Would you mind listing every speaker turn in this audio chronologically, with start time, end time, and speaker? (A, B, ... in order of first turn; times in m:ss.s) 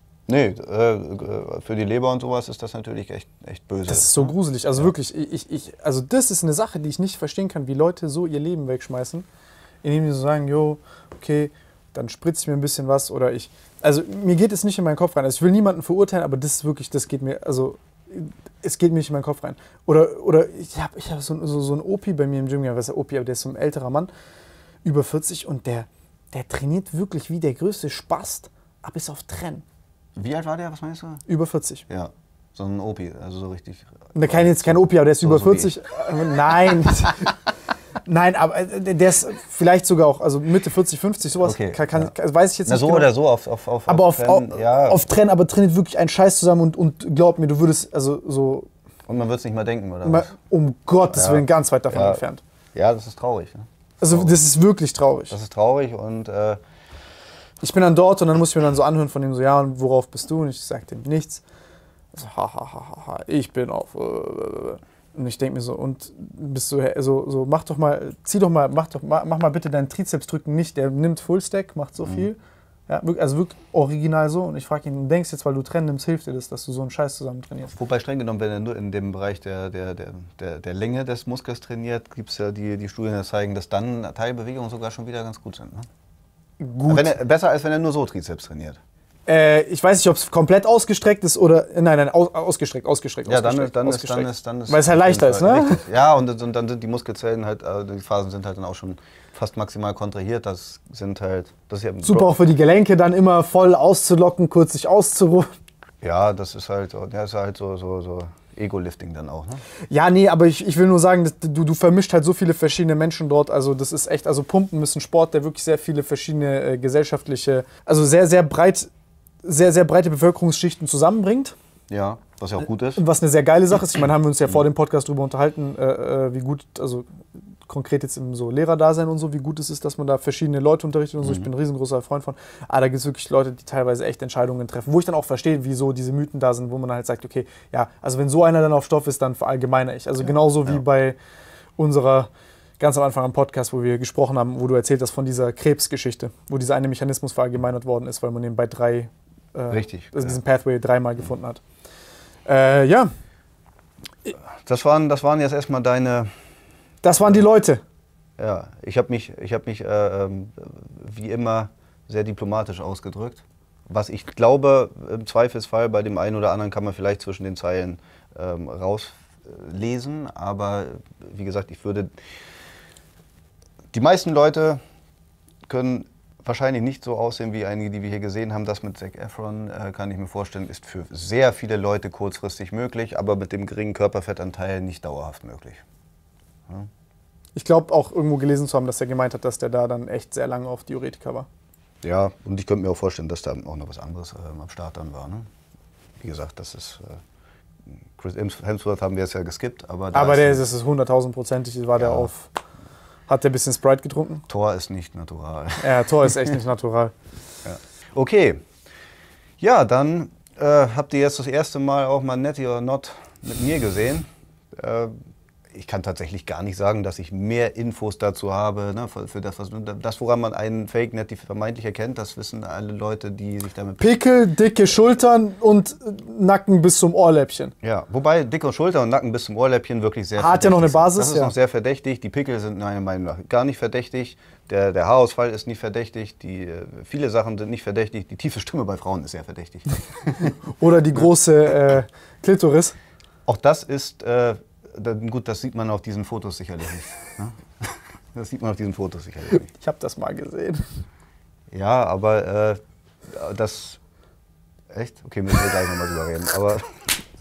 0:00.3-0:04.9 A
0:03.9-0:09.3 B
0:09.8-0:24.1 B
0:24.8-0:29.6 B
0:30.2-0:31.2 A
0:31.3-0:31.8 B
0:31.9-0:35.8 A
0:34.2-0:37.3 B
0:38.0-0:43.1 B
0:41.4-0:42.1 A
0:42.7-0:45.0 A
0:43.9-0:48.7 B
0:49.1-0:50.3 A
0:50.0-0:52.4 B
0:51.1-0:52.2 A
0:52.8-0:54.4 A
0:54.0-0:55.3 B
0:55.3-0:56.6 A
0:57.6-1:01.4 B
1:02.1-1:12.4 B
1:12.9-1:17.7 B
1:17.7-1:25.9 A
1:26.6-1:27.1 B
1:26.9-1:28.8 A
1:29.3-1:35.8 B
1:33.3-1:42.4 A
1:42.0-1:45.5 B
1:46.0-1:49.6 A
1:49.9-1:58.9 B
1:59.4-2:01.6 B
2:01.9-2:03.0 A
2:03.0-2:07.1 B
2:07.6-2:21.2 B
2:11.2-2:11.5 A
2:21.8-2:31.6 B
2:29.7-2:30.4 A
2:32.5-2:33.1 B
2:34.6-2:36.3 A
2:37.0-2:37.8 B
2:38.4-2:52.2 A
2:53.9-2:54.8 A
2:55.7-3:05.8 A
3:07.6-3:11.5 B
3:12.0-3:15.5 A
3:16.2-3:17.2 A
3:18.2-3:20.6 A
3:20.1-3:22.5 B
3:22.0-3:22.3 A
3:23.3-3:24.5 B
3:24.5-3:26.4 A
3:25.8-3:27.1 B
3:27.7-3:28.6 A
3:29.6-3:44.2 A
3:44.0-3:47.7 B
3:47.8-4:00.6 A
3:50.4-3:51.5 B
4:00.7-4:03.0 B
4:03.5-4:09.7 A
4:09.7-4:10.8 B
4:11.7-4:14.0 A
4:14.9-4:17.1 A